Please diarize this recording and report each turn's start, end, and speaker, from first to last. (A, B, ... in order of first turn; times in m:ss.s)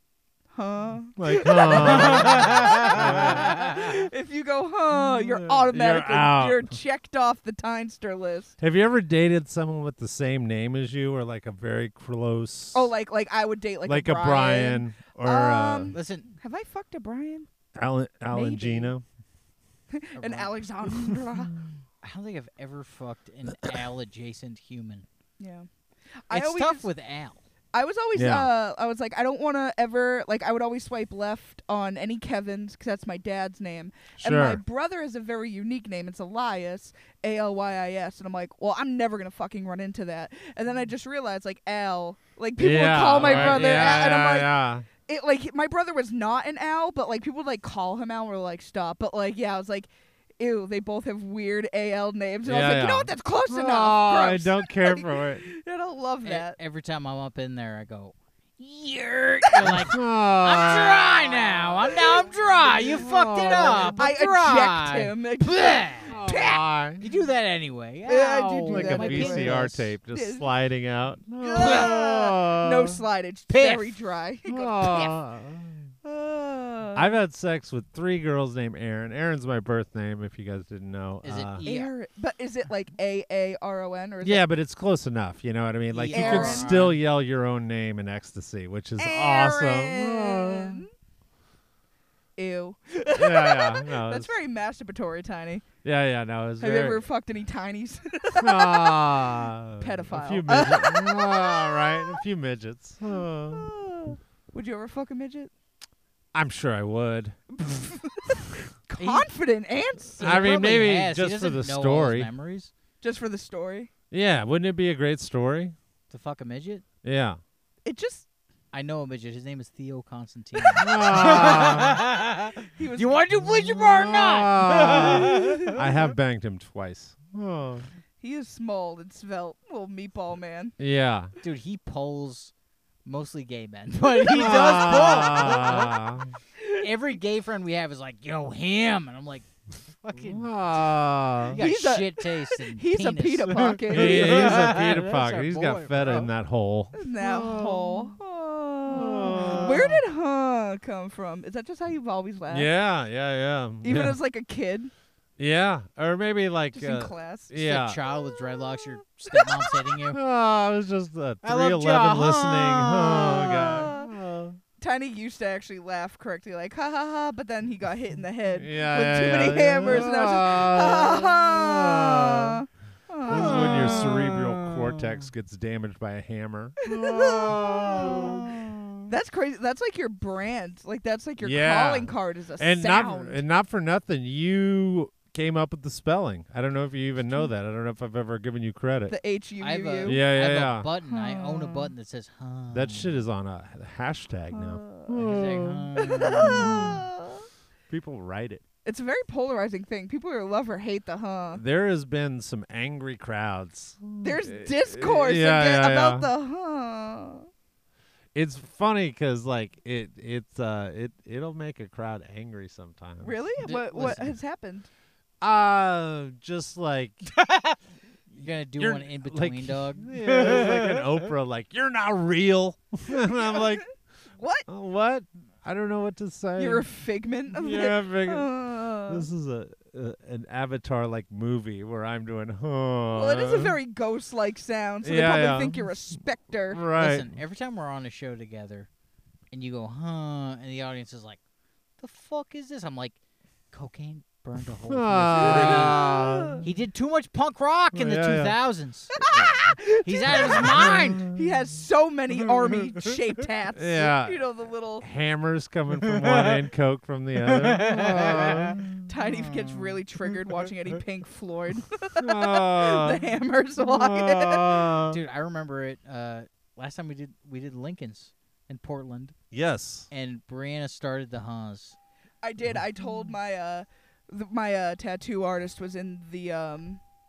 0:00.5-0:08.5 A
0:01.2-0:03.6 B
0:01.8-0:03.8 C
0:04.9-0:06.7 B
0:08.6-0:12.9 B
0:12.7-0:17.5 A
0:13.8-0:15.9 B
0:15.9-0:16.3 C
0:17.8-0:19.0 B
0:18.3-0:18.9 A
0:19.9-0:21.6 A
0:20.2-0:20.5 C
0:22.0-0:25.0 C
0:25.4-0:25.7 A
0:26.3-0:26.9 A
0:26.3-0:27.4 C
0:27.7-0:56.6 A
0:28.1-0:28.5 B
0:34.2-0:34.6 B
0:42.6-0:44.9 B
0:43.2-0:43.8 C
0:52.4-0:55.4 B
0:56.2-1:06.2 C
0:59.6-1:01.6 B
1:02.7-1:04.0 B
1:03.5-1:06.6 A
1:06.1-1:07.0 B
1:07.0-1:09.9 C
1:08.0-1:10.4 A
1:08.7-1:13.0 B
1:11.4-1:15.2 A
1:11.6-1:12.0 C
1:13.5-1:14.0 C
1:14.4-1:15.8 B
1:16.0-1:17.2 A
1:16.9-1:21.6 B
1:21.2-1:21.9 C
1:21.6-1:24.5 A
1:24.2-1:30.8 B
1:25.9-1:27.0 C
1:26.1-1:26.8 A
1:29.0-1:30.9 A
1:32.4-1:35.6 A
1:33.2-1:34.3 B
1:35.8-1:37.0 B
1:36.6-1:39.2 A
1:38.4-1:43.7 B
1:39.8-1:42.2 A
1:43.1-1:45.5 A
1:46.3-1:47.4 B
1:47.5-1:50.7 A
1:49.0-1:49.3 C
1:50.2-1:52.7 C
1:50.2-1:52.3 B
1:53.0-1:53.9 A
1:54.1-1:55.8 B
1:56.1-1:56.8 C
1:57.0-1:57.4 B
1:57.8-1:58.3 A
1:58.7-2:05.8 C
2:00.8-2:02.0 B
2:02.7-2:03.3 A
2:03.4-2:07.8 B
2:05.2-2:05.7 A
2:08.2-2:10.7 A
2:10.8-2:11.3 B
2:11.4-2:12.5 C
2:13.0-2:16.0 C
2:14.3-2:16.3 B
2:14.4-2:15.9 A
2:16.6-2:16.8 A
2:16.8-2:19.5 C
2:20.0-2:20.6 C
2:20.1-2:21.6 B
2:21.4-2:26.3 C
2:21.5-2:24.8 A
2:23.9-2:28.1 B
2:26.9-2:32.7 A
2:28.9-2:29.9 B
2:29.0-2:30.0 C
2:32.5-2:34.2 B
2:33.8-2:34.9 A
2:35.4-2:38.0 B
2:36.7-2:37.5 A
2:37.5-2:40.2 C
2:39.3-2:39.6 A
2:40.1-2:44.6 B
2:41.4-2:43.8 C
2:43.2-2:44.1 A
2:44.8-2:54.0 A
2:48.6-2:52.6 B
2:53.3-2:55.3 C
2:53.3-2:58.6 B
2:56.8-2:58.3 A
2:57.4-2:59.0 C
2:59.1-3:03.4 A
3:01.4-3:09.1 B
3:09.1-3:10.2 A
3:09.6-3:13.2 C
3:10.0-3:10.9 B
3:11.1-3:11.9 A
3:12.7-3:17.0 B
3:14.5-3:15.1 A
3:15.1-3:17.0 C
3:16.0-3:17.4 A
3:17.9-3:18.6 B
3:18.8-3:21.6 A
3:21.5-3:26.3 B
3:24.2-3:27.5 A
3:28.3-3:33.3 B
3:33.2-3:34.9 A
3:33.6-3:34.3 C
3:35.4-3:37.3 B
3:37.3-3:37.8 C
3:38.3-3:41.2 C
3:38.8-3:43.8 B
3:43.1-3:43.8 A
3:44.4-3:44.7 A
3:44.7-3:46.8 B
3:46.6-3:49.3 A
3:47.5-3:48.5 B
3:49.0-3:53.8 B
3:53.1-3:56.8 A
3:55.0-3:56.1 B
3:56.7-3:57.4 B
3:57.0-3:58.9 C
3:59.5-4:01.4 C
4:02.0-4:03.2 C
4:03.7-4:06.1 C
4:04.9-4:06.7 B
4:05.3-4:06.6 A
4:06.6-4:09.3 C
4:07.9-4:08.6 B
4:09.2-4:15.0 A
4:09.3-4:09.7 B
4:10.0-4:11.3 C
4:10.3-4:11.5 B
4:13.7-4:14.4 B
4:15.0-4:19.0 B
4:16.0-4:16.6 C
4:17.5-4:20.0 C
4:19.0-4:24.9 A
4:22.2-4:25.2 B
4:25.1-4:29.4 C
4:29.5-4:30.1 B
4:30.1-4:32.0 C
4:32.4-4:37.0 A